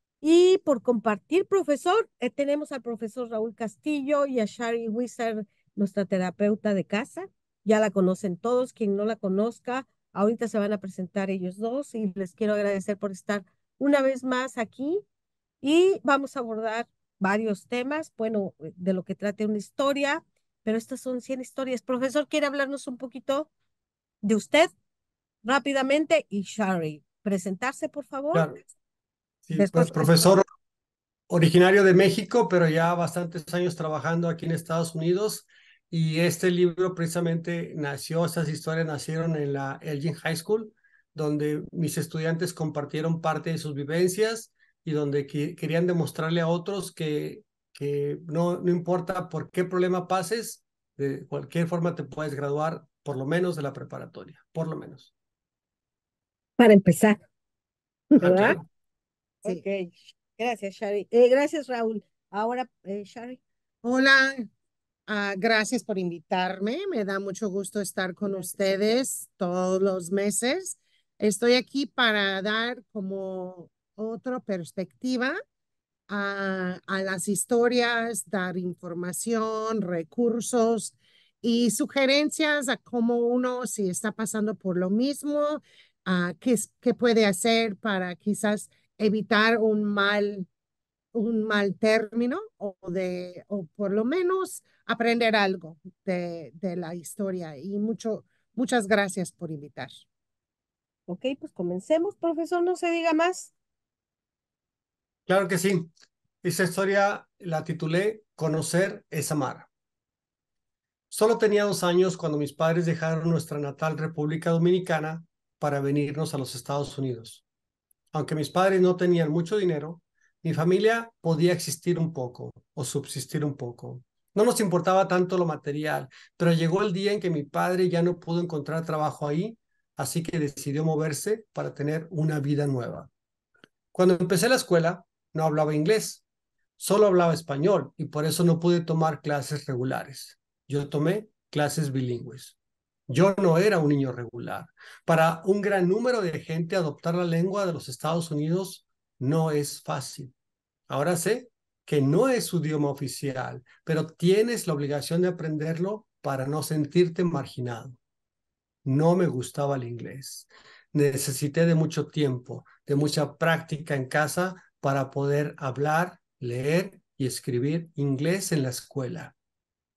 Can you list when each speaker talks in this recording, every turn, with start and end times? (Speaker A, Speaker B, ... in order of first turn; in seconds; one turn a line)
Speaker A: 0.2-15.0
Speaker A: 15.6-23.5
Speaker A: 24.2-24.7
Speaker A: 25.4-28.5
Speaker B: 28.3-28.6
Speaker B: 29.4-30.4
Speaker A: 29.6-30.4
Speaker B: 31.3-55.1
Speaker A: 56.6-57.2
Speaker A: 58.1-58.6
Speaker B: 58.2-58.6
Speaker A: 59.4-63.4
Speaker C: 63.8-64.4
Speaker C: 65.1-75.3
Speaker A: 68.3-68.5
Speaker C: 76.1-90.5
Speaker C: 91.1-99.9
Speaker A: 101.1-103.5
Speaker B: 105.3-105.9
Speaker B: 106.4-109.7
Speaker B: 111.1-117.4
Speaker B: 118.1-133.1
Speaker B: 133.9-136.2
Speaker B: 136.8-142.6
Speaker B: 143.1-150.3
Speaker B: 150.9-158.0
Speaker B: 158.8-169.3